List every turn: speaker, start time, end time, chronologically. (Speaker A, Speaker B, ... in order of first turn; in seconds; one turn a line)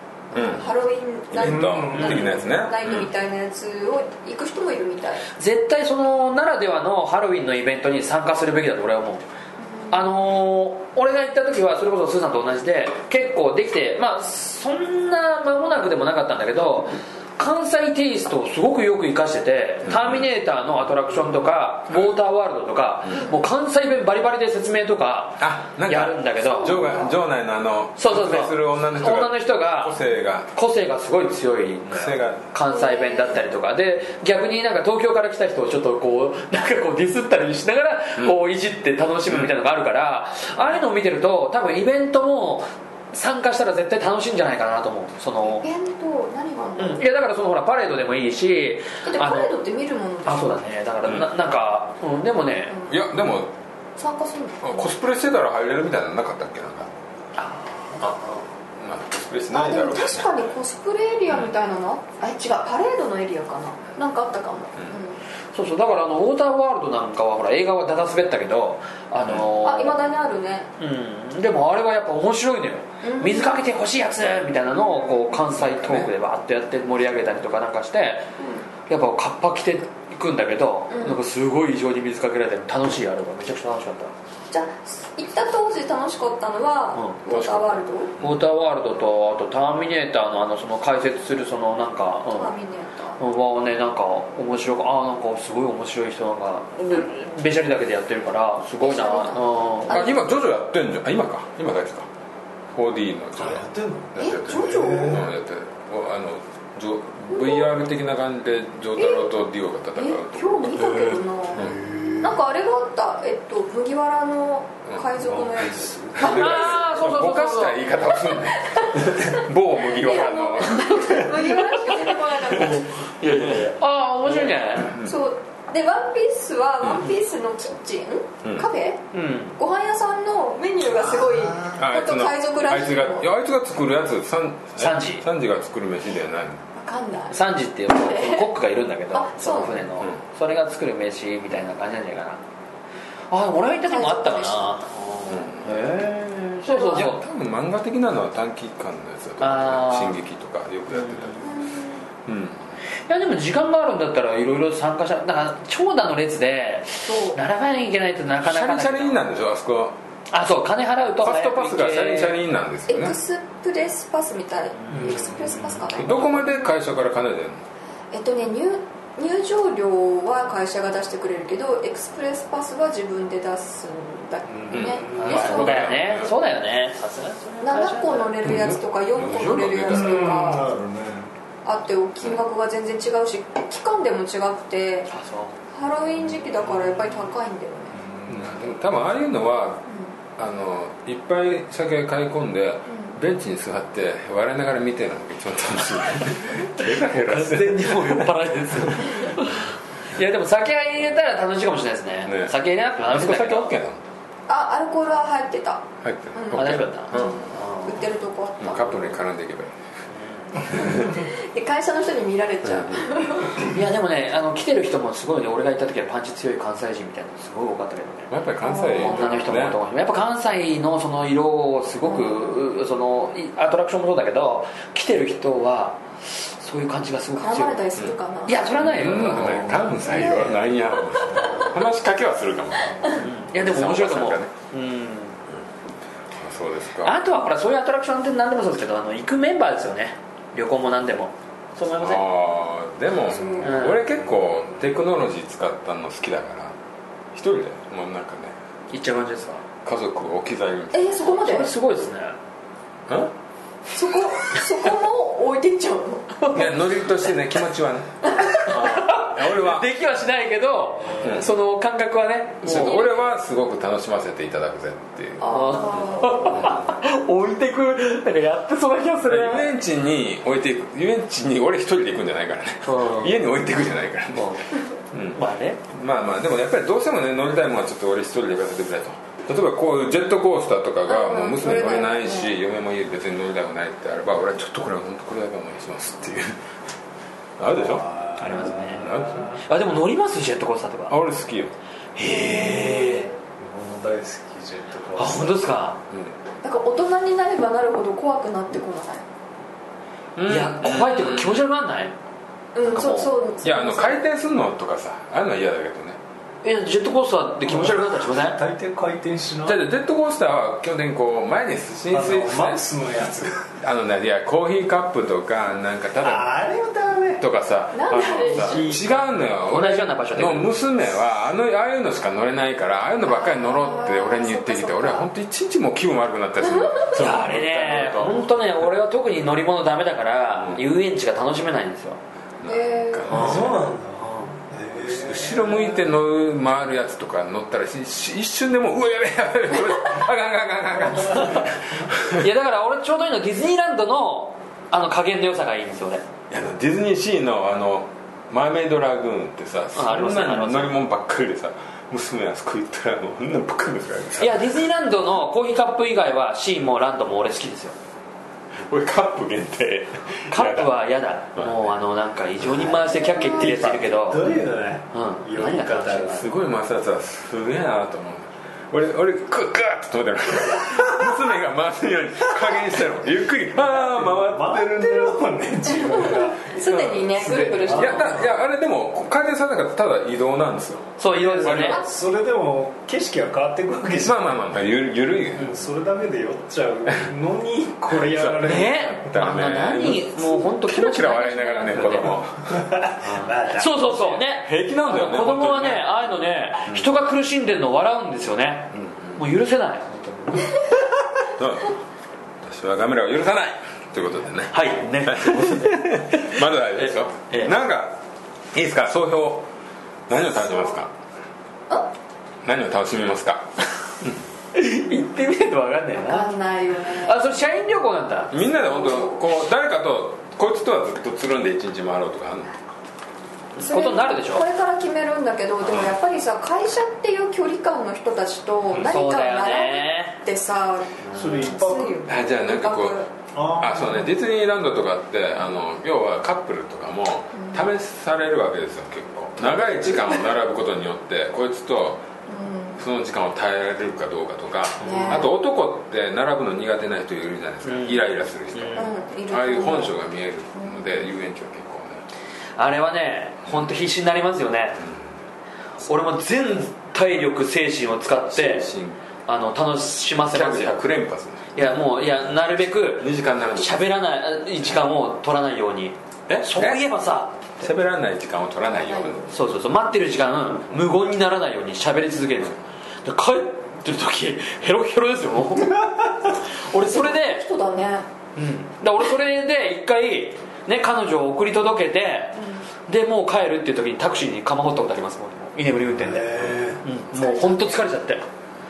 Speaker A: 0.3-5.2
Speaker B: 0.3-0.7
Speaker B: 1.3-3.1
Speaker C: 1.4-2.4
Speaker D: 5.4-9.2
Speaker A: 9.6-10.0
Speaker D: 9.9-27.0
Speaker B: 19.8-20.2
Speaker B: 25.4-30.5
Speaker A: 26.6-26.9
Speaker D: 28.0-29.9
Speaker D: 30.5-45.6
Speaker B: 31.9-32.4
Speaker A: 32.7-33.4
Speaker A: 45.5-47.0
Speaker D: 46.8-49.5
Speaker A: 49.0-50.6
Speaker D: 50.2-52.8
Speaker B: 52.9-53.5
Speaker A: 54.0-54.9
Speaker B: 54.6-56.9
Speaker D: 57.4-58.4
Speaker B: 58.0-60.4
Speaker A: 59.5-65.2
Speaker D: 65.5-70.0
Speaker A: 69.6-70.7
Speaker D: 70.8-78.3
Speaker A: 73.0-73.6
Speaker A: 74.8-75.4
Speaker B: 75.6-76.1
Speaker A: 78.4-78.7
Speaker D: 78.9-84.1
Speaker A: 80.9-81.2
Speaker A: 84.5-88.1
Speaker B: 87.3-88.4
Speaker D: 88.2-92.5
Speaker A: 92.3-93.2
Speaker D: 93.2-100.2
Speaker A: 98.8-100.2
Speaker B: 99.9-102.1
Speaker B: 102.7-110.8
Speaker C: 103.4-105.2
Speaker A: 104.2-105.2
Speaker A: 107.3-107.7
Speaker A: 109.0-109.3
Speaker A: 109.9-116.8
Speaker C: 111.5-112.3
Speaker C: 115.2-116.5
Speaker B: 116.2-121.6
Speaker D: 116.2-117.8
Speaker A: 118.3-122.9
Speaker D: 121.8-124.9
Speaker B: 124.8-125.1
Speaker A: 124.9-133.3
Speaker D: 129.1-129.6
Speaker C: 131.1-131.8
Speaker B: 131.7-136.6
Speaker D: 134.8-135.2
Speaker A: 136.7-138.5
Speaker D: 137.3-142.4
Speaker A: 139.1-139.9
Speaker D: 143.3-147.2
Speaker A: 143.7-144.9
Speaker B: 145.3-145.9
Speaker A: 146.7-147.1
Speaker B: 146.9-151.5
Speaker D: 149.4-150.2
Speaker D: 150.9-151.5
Speaker A: 151.4-152.0
Speaker B: 152.2-152.6
Speaker D: 153.1-159.2
Speaker A: 157.0-157.4
Speaker B: 158.4-159.9
Speaker D: 160.3-162.3
Speaker B: 161.2-163.2
Speaker A: 162.9-166.7
Speaker C: 164.9-165.9
Speaker B: 165.9-167.6
Speaker A: 168.1-175.9
Speaker C: 174.5-175.5
Speaker B: 174.7-176.3
Speaker D: 175.2-178.5
Speaker A: 177.6-180.7
Speaker B: 178.4-180.4
Speaker C: 179.9-181.3
Speaker A: 181.6-185.1
Speaker D: 185.1-185.5
Speaker A: 185.7-188.0
Speaker C: 186.6-187.0
Speaker C: 188.0-188.5
Speaker B: 188.3-189.8
Speaker B: 190.4-199.2
Speaker D: 197.0-203.7
Speaker B: 202.2-204.0
Speaker A: 204.5-209.2
Speaker B: 206.0-207.5
Speaker D: 206.5-208.0
Speaker B: 208.6-209.8
Speaker D: 210.2-210.8
Speaker A: 210.6-213.7
Speaker B: 210.7-211.2
Speaker B: 212.6-213.0
Speaker D: 213.6-218.3
Speaker B: 218.3-219.8
Speaker A: 218.6-219.5
Speaker D: 218.9-227.8
Speaker A: 222.0-222.5
Speaker A: 227.4-228.8
Speaker D: 228.4-229.8
Speaker B: 228.8-234.5
Speaker A: 229.9-230.6
Speaker A: 231.4-231.6
Speaker D: 233.1-235.4
Speaker B: 236.3-237.2
Speaker D: 237.0-242.2
Speaker B: 242.0-246.7
Speaker A: 243.3-243.9
Speaker D: 243.6-244.0
Speaker B: 247.3-248.5
Speaker D: 248.9-249.6
Speaker B: 249.8-251.2
Speaker A: 250.9-251.7
Speaker D: 251.2-252.3
Speaker A: 253.9-256.5
Speaker B: 256.5-259.9
Speaker A: 258.3-258.7
Speaker D: 258.7-263.1
Speaker B: 261.2-261.5
Speaker B: 262.6-266.9
Speaker A: 262.7-263.2
Speaker A: 265.4-266.7
Speaker D: 265.4-269.7
Speaker B: 269.3-274.5
Speaker D: 272.8-273.4
Speaker D: 274.3-274.7
Speaker B: 275.1-275.4
Speaker D: 275.3-275.8
Speaker B: 275.9-286.6
Speaker A: 281.1-282.5
Speaker B: 287.6-288.1
Speaker C: 287.7-289.6
Speaker D: 288.4-291.1
Speaker B: 288.8-289.5
Speaker B: 291.1-291.7
Speaker D: 292.1-293.3
Speaker A: 292.3-293.3
Speaker C: 292.5-292.9
Speaker C: 293.6-295.6
Speaker D: 295.2-296.0
Speaker B: 296.1-296.3
Speaker A: 296.6-299.2
Speaker B: 300.4-301.6
Speaker D: 300.4-302.1
Speaker A: 302.7-304.2
Speaker D: 302.9-303.3
Speaker B: 303.6-306.2
Speaker D: 306.6-308.6
Speaker C: 307.6-309.8
Speaker B: 309.6-312.8
Speaker C: 312.1-313.7
Speaker B: 313.8-316.5
Speaker C: 316.2-317.4
Speaker B: 317.4-328.5
Speaker A: 317.9-319.0
Speaker C: 318.5-319.3
Speaker D: 319.6-320.7
Speaker A: 323.2-325.3
Speaker A: 326.8-327.0
Speaker D: 327.1-332.2
Speaker B: 330.6-330.8
Speaker A: 332.6-333.5
Speaker B: 332.6-333.7
Speaker C: 333.3-335.9
Speaker D: 333.3-333.7
Speaker D: 334.2-334.5
Speaker B: 334.9-342.5
Speaker D: 342.3-346.2
Speaker B: 346.5-354.7
Speaker D: 349.9-350.9
Speaker D: 354.4-357.9
Speaker B: 358.8-360.9
Speaker D: 360.5-364.4
Speaker A: 363.1-363.7
Speaker C: 363.4-366.5
Speaker B: 363.6-364.6
Speaker D: 365.1-366.4
Speaker B: 366.3-375.4
Speaker C: 370.9-371.3
Speaker C: 373.8-376.7
Speaker A: 375.9-378.4
Speaker B: 376.8-382.0
Speaker C: 377.4-378.5
Speaker D: 381.2-382.0
Speaker C: 381.4-384.5
Speaker B: 384.2-385.8
Speaker C: 385.6-389.4
Speaker B: 388.1-392.8
Speaker D: 388.6-392.3
Speaker C: 392.7-394.4
Speaker D: 393.2-400.8
Speaker B: 394.5-396.2
Speaker B: 398.9-399.4
Speaker B: 401.5-401.9
Speaker B: 402.6-408.1
Speaker D: 404.7-407.7
Speaker B: 408.7-409.7
Speaker B: 410.3-411.1
Speaker B: 412.6-413.7
Speaker D: 414.7-416.5
Speaker A: 416.2-417.4
Speaker D: 417.1-418.6
Speaker B: 418.5-422.7
Speaker A: 418.7-419.4
Speaker D: 423.8-424.6
Speaker A: 423.8-433.3
Speaker D: 429.0-430.4
Speaker D: 431.3-431.8
Speaker C: 431.3-432.3
Speaker B: 432.2-433.2
Speaker C: 433.5-434.3
Speaker B: 433.8-442.2
Speaker A: 437.5-437.9
Speaker A: 442.5-443.0
Speaker B: 443.0-452.2
Speaker A: 445.0-445.5
Speaker D: 445.1-445.4
Speaker D: 447.8-449.1
Speaker A: 448.9-450.1
Speaker A: 450.7-451.2
Speaker D: 452.8-455.0
Speaker D: 456.1-458.9
Speaker B: 458.5-459.2
Speaker D: 459.4-461.0
Speaker B: 460.4-461.7
Speaker D: 461.7-467.9
Speaker B: 463.1-464.1
Speaker B: 466.5-467.1
Speaker B: 467.8-469.5
Speaker A: 469.0-469.5
Speaker D: 469.5-476.1
Speaker D: 476.8-477.6
Speaker A: 476.9-478.3
Speaker D: 478.5-488.4
Speaker A: 482.6-482.8
Speaker C: 486.2-487.0
Speaker A: 487.3-487.9